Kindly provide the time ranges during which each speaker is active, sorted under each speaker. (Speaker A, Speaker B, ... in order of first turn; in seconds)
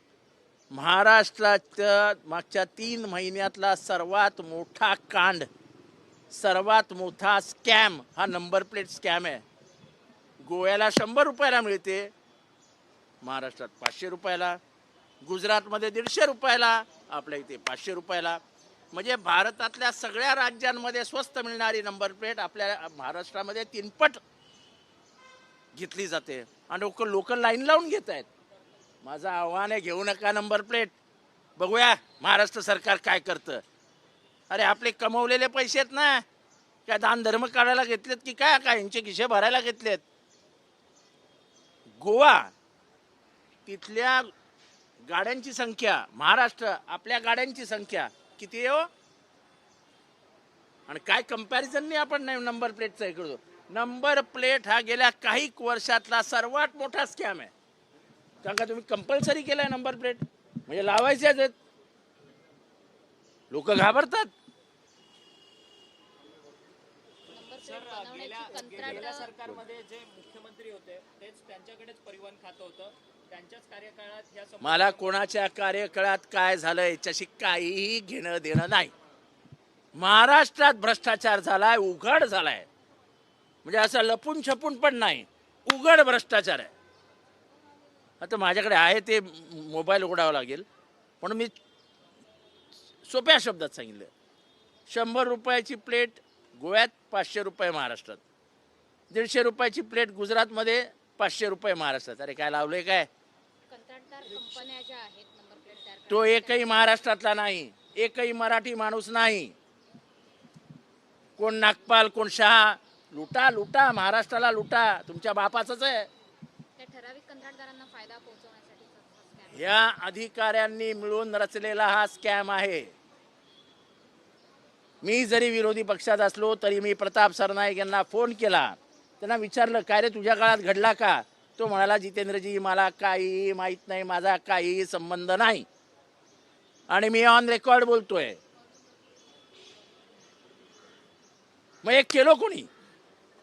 Speaker A: 0.7-5.5, 6.3-9.4, 10.4-12.1, 13.2-14.6, 15.2-18.4, 18.9-24.2, 25.7-28.3, 29.0-30.9, 31.6-33.6, 34.5-36.2, 36.9-40.0, 42.0-42.5, 43.7-44.3, 45.1-48.9, 50.9-57.5, 58.4-61.5, 63.5-64.3, 74.6-78.9, 80.0-82.7, 83.6-86.7, 88.2-90.7, 91.2-91.5, 93.0-94.1, 94.9-98.2, 99.1-103.1, 106.1-109.5, 111.4-116.1, 119.5-122.9, 125.0-135.7, 136.9-138.4, 141.8-142.7
Speaker B: 67.3-69.4, 103.7-107.0, 116.8-119.8
Speaker C: 67.8-75.1